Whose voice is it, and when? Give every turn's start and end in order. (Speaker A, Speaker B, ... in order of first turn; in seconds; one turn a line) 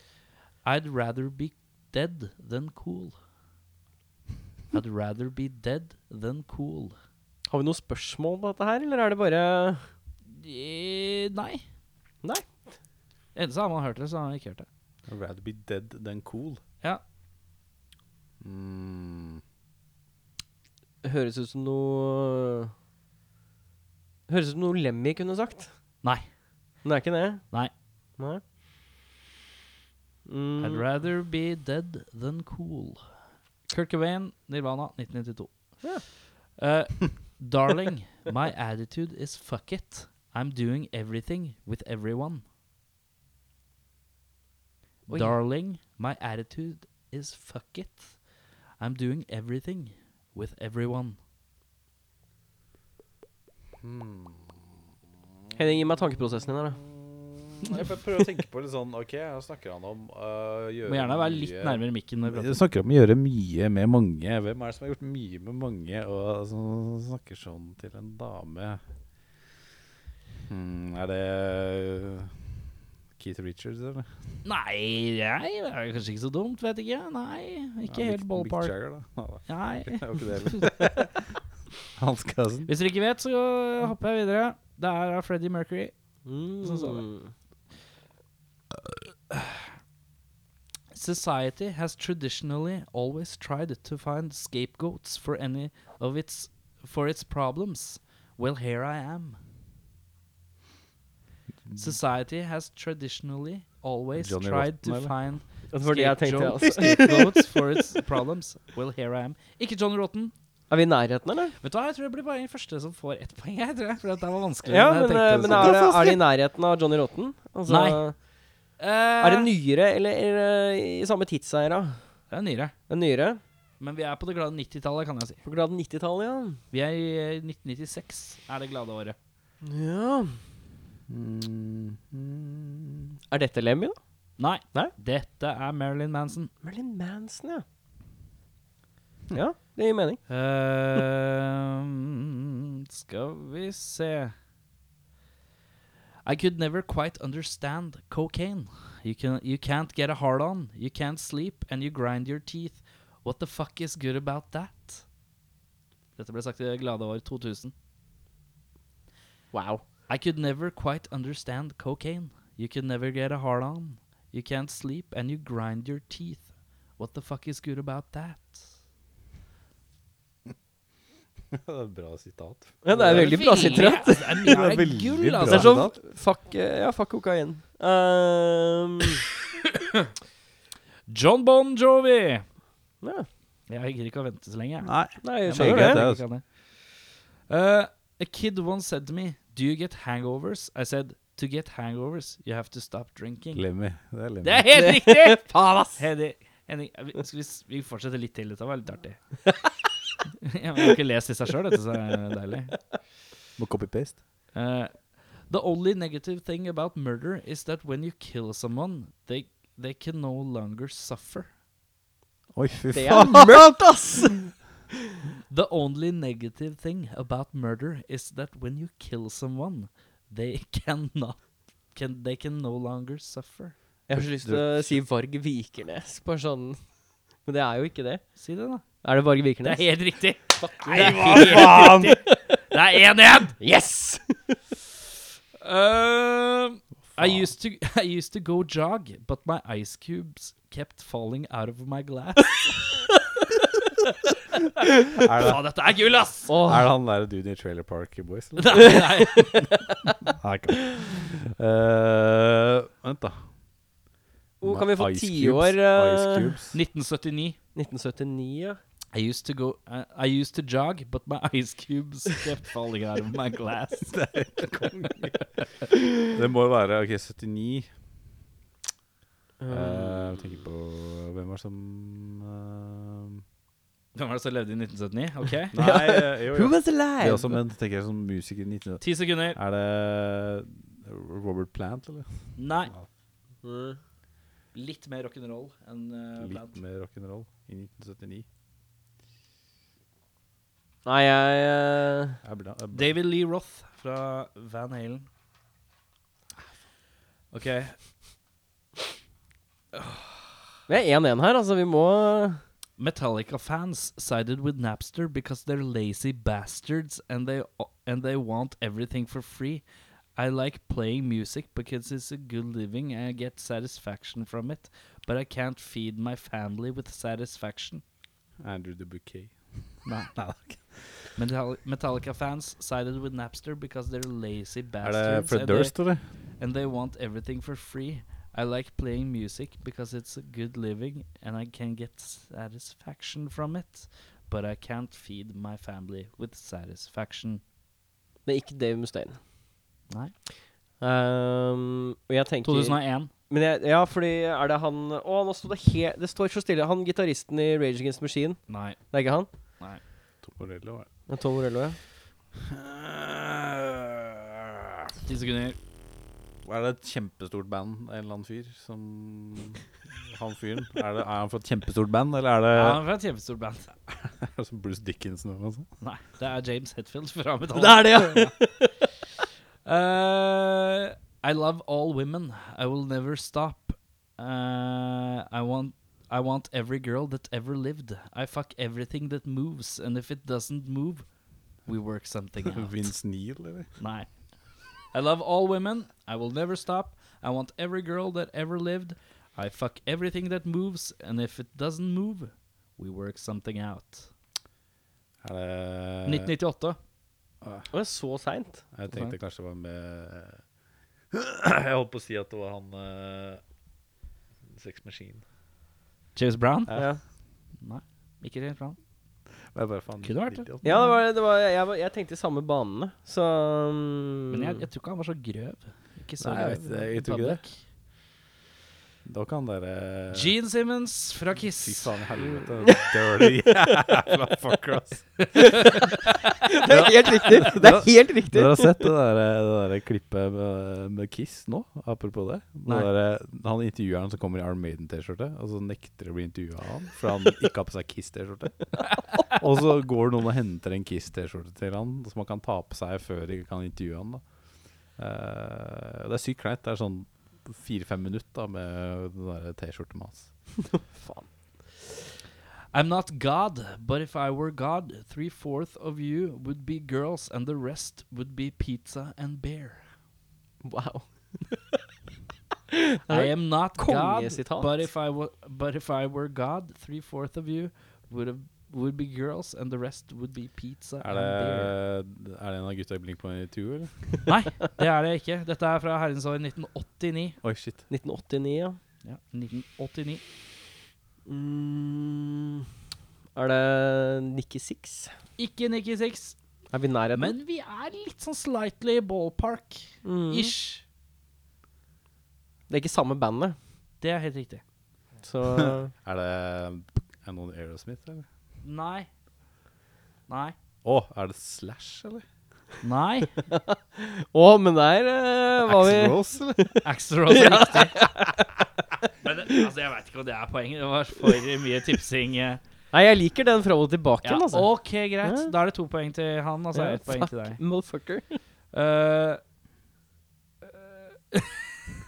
Speaker A: 0.6-3.1
Speaker A: 4.7-6.9
Speaker B: 7.5-9.9
Speaker A: 10.3-11.6
Speaker B: 12.2-12.7
Speaker A: 13.3-14.7
Speaker C: 15.1-16.6
Speaker C: 18.4-19.4
Speaker B: 21.0-22.7
Speaker B: 24.3-25.8
Speaker B: 26.8-27.6
Speaker B: 30.2-30.8
Speaker A: 30.6-33.0
Speaker A: 33.7-42.4
Speaker B: 45.1-45.4
Speaker A: 45.1-48.1
Speaker A: 48.8-51.2
Speaker C: 53.8-54.8
Speaker B: 55.5-56.8
Speaker C: 56.8-68.8
Speaker A: 60.9-62.6
Speaker C: 70.5-72.3
Speaker C: 73.2-74.1
Speaker A: 74.4-78.8
Speaker C: 77.9-81.2
Speaker A: 79.5-80.7
Speaker C: 82.0-82.7
Speaker A: 82.7-85.9
Speaker B: 86.2-87.3
Speaker A: 86.6-87.0
Speaker A: 89.3-89.6
Speaker A: 90.9-99.4
Speaker C: 101.7-102.0
Speaker A: 101.8-110.3
Speaker C: 104.2-105.1
Speaker B: 105.7-107.4
Speaker B: 110.7-111.5
Speaker A: 111.6-115.8
Speaker B: 114.7-118.1
Speaker C: 115.4-116.2
Speaker A: 117.7-118.0
Speaker A: 118.8-119.5
Speaker B: 119.2-122.0
Speaker A: 122.3-122.7
Speaker B: 122.9-123.4
Speaker A: 123.8-125.4
Speaker B: 125.4-126.6
Speaker A: 126.7-129.2
Speaker B: 129.6-130.4
Speaker C: 131.1-133.2
Speaker B: 133.3-134.0
Speaker A: 134.4-136.5
Speaker B: 136.6-137.6
Speaker B: 139.3-140.2
Speaker A: 140.3-142.2
Speaker A: 142.9-144.3
Speaker A: 146.2-155.0
Speaker A: 156.2-157.7
Speaker B: 159.5-159.8
Speaker A: 160.1-168.7
Speaker C: 171.5-175.9
Speaker B: 172.8-174.6
Speaker A: 173.0-175.8
Speaker B: 175.4-179.3
Speaker A: 181.1-182.4
Speaker B: 183.0-183.3
Speaker A: 183.7-187.0
Speaker C: 184.8-186.2
Speaker B: 185.2-186.0
Speaker A: 187.5-193.6
Speaker C: 193.5-194.7
Speaker A: 194.4-199.4
Speaker B: 194.8-196.0
Speaker A: 200.4-202.8
Speaker C: 203.6-204.2
Speaker A: 204.5-211.5
Speaker C: 212.5-213.9
Speaker B: 212.9-214.5
Speaker A: 215.5-223.7
Speaker B: 224.1-226.8
Speaker C: 224.1-225.0
Speaker B: 227.4-228.4
Speaker A: 228.4-228.9
Speaker B: 229.0-232.4
Speaker A: 229.6-232.2
Speaker C: 230.9-232.2
Speaker A: 232.7-233.6
Speaker B: 233.6-234.6
Speaker A: 235.6-242.8
Speaker C: 237.1-237.5
Speaker C: 245.2-245.6
Speaker A: 245.4-246.5
Speaker B: 246.5-246.8
Speaker C: 246.6-249.0
Speaker A: 248.6-249.9
Speaker C: 250.4-253.5
Speaker B: 254.6-256.5
Speaker C: 254.6-256.8
Speaker A: 256.7-257.6
Speaker B: 257.7-258.8
Speaker A: 259.1-264.2
Speaker C: 264.1-265.4
Speaker C: 266.2-267.9
Speaker B: 269.6-270.4
Speaker C: 269.7-273.4
Speaker A: 274.1-275.8
Speaker C: 275.7-283.1
Speaker B: 275.8-277.6
Speaker A: 279.0-279.6
Speaker A: 282.6-282.9
Speaker B: 283.6-284.0
Speaker A: 284.7-286.7
Speaker C: 286.4-288.4
Speaker B: 291.0-292.4
Speaker C: 292.4-293.2
Speaker A: 292.9-295.3
Speaker A: 297.5-298.0
Speaker A: 299.9-300.3
Speaker B: 300.9-302.6
Speaker A: 303.0-309.8
Speaker A: 310.4-318.0
Speaker C: 318.6-321.2
Speaker A: 320.0-320.3
Speaker A: 321.4-326.0
Speaker C: 325.0-326.2
Speaker A: 326.6-337.6
Speaker B: 338.4-339.4
Speaker B: 341.0-349.5
Speaker A: 342.6-343.3
Speaker A: 348.7-349.0
Speaker C: 350.4-351.1
Speaker B: 351.3-352.0
Speaker C: 352.7-355.1
Speaker A: 355.2-355.8
Speaker C: 356.6-363.0
Speaker A: 362.7-363.9
Speaker C: 364.1-365.9
Speaker A: 366.0-368.6
Speaker B: 367.8-368.8
Speaker A: 369.8-381.2
Speaker A: 381.9-383.1
Speaker C: 382.6-383.9
Speaker A: 384.0-384.3
Speaker A: 385.1-394.3
Speaker C: 395.4-396.5
Speaker A: 396.2-397.0
Speaker C: 397.6-397.9
Speaker B: 397.9-398.8
Speaker C: 398.9-400.6
Speaker A: 399.1-399.3
Speaker C: 401.3-403.6
Speaker C: 404.7-405.4
Speaker A: 406.3-407.0
Speaker B: 406.9-407.2
Speaker A: 407.8-409.0
Speaker C: 409.7-411.1
Speaker A: 410.2-411.2
Speaker B: 410.8-414.8
Speaker A: 414.5-417.8
Speaker C: 416.4-417.6
Speaker C: 419.2-420.5
Speaker A: 420.3-422.1
Speaker C: 421.6-425.9
Speaker B: 422.4-423.1
Speaker A: 425.6-426.1
Speaker B: 426.7-429.0
Speaker C: 426.9-444.4
Speaker C: 445.2-450.5
Speaker B: 450.9-451.8
Speaker A: 452.9-460.0
Speaker B: 460.8-461.6
Speaker B: 462.9-465.1
Speaker A: 463.3-471.9
Speaker C: 471.2-474.1
Speaker A: 474.4-477.6
Speaker C: 477.6-478.0
Speaker B: 478.1-479.0
Speaker A: 479.2-480.4
Speaker B: 481.4-482.8
Speaker B: 483.5-485.3
Speaker A: 485.6-486.6
Speaker B: 486.9-487.5
Speaker A: 487.3-491.0
Speaker B: 490.2-490.7
Speaker B: 492.9-493.8
Speaker A: 494.2-494.8
Speaker B: 495.4-496.1
Speaker C: 495.8-498.4
Speaker A: 498.8-499.3
Speaker A: 500.5-500.8
Speaker C: 501.0-502.4
Speaker A: 503.0-503.5
Speaker B: 503.7-508.6
Speaker C: 505.8-506.9
Speaker A: 507.0-508.3
Speaker A: 509.4-512.8
Speaker B: 513.1-515.7
Speaker A: 514.4-517.8
Speaker B: 516.9-518.6
Speaker A: 518.9-519.6
Speaker A: 520.8-521.9